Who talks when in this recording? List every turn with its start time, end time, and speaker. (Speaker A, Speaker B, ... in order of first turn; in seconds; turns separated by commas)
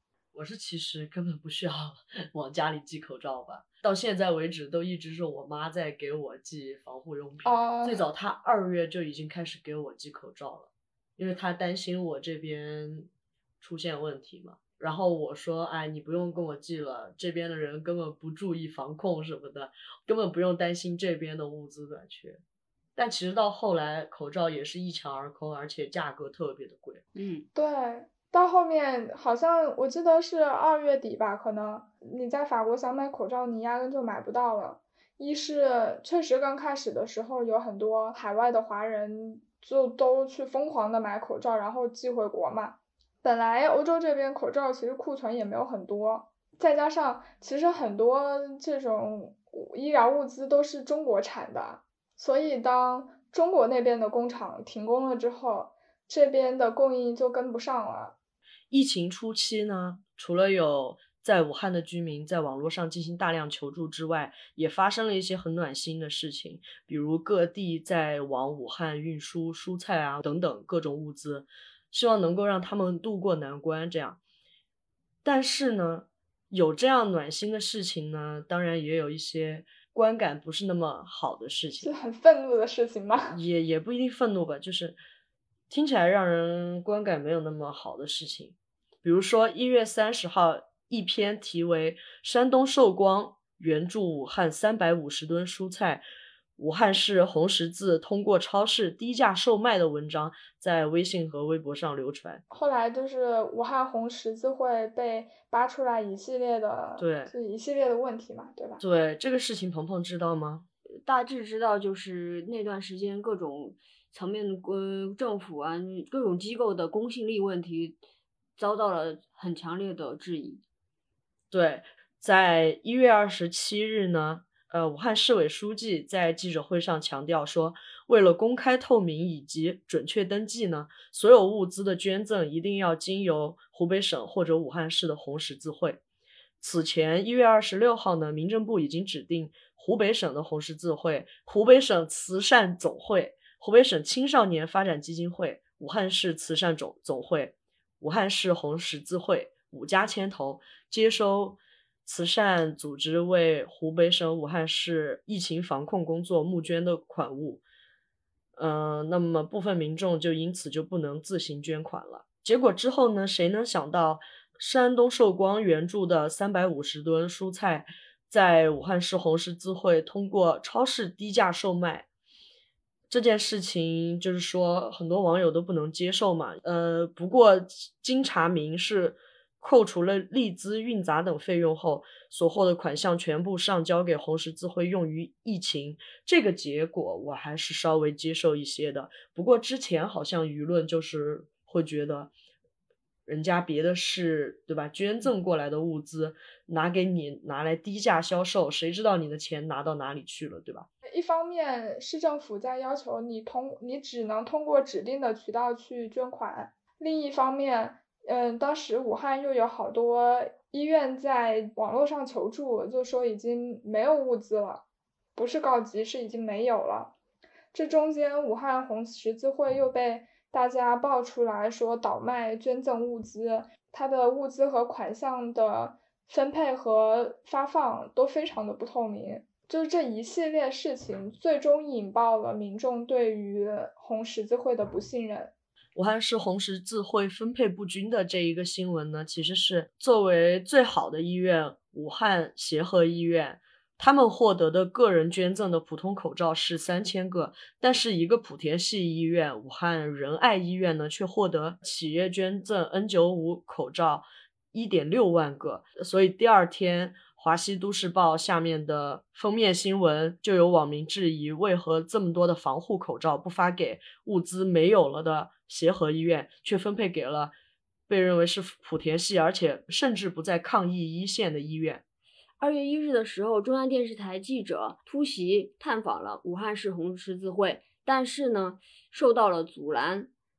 Speaker A: 0.3-13.1, Speaker B: 7.5-8.1, Speaker A: 13.6-22.4, Speaker A: 23.0-27.0, Speaker C: 27.1-27.5, Speaker B: 27.5-58.2, Speaker A: 58.7-74.2, Speaker A: 75.2-81.9, Speaker B: 81.8-83.4, Speaker A: 83.3-85.0, Speaker A: 85.7-96.0, Speaker A: 96.6-102.4, Speaker B: 102.5-108.8, Speaker A: 107.0-107.3, Speaker A: 108.8-110.7, Speaker C: 111.0-118.0, Speaker C: 118.6-120.6, Speaker A: 121.5-136.0, Speaker A: 136.6-157.6, Speaker A: 158.6-172.1, Speaker A: 173.1-192.3, Speaker A: 193.3-200.9, Speaker B: 201.1-214.8, Speaker B: 215.3-217.1, Speaker B: 217.7-235.5, Speaker A: 235.9-267.5, Speaker A: 268.1-272.0, Speaker C: 272.6-280.3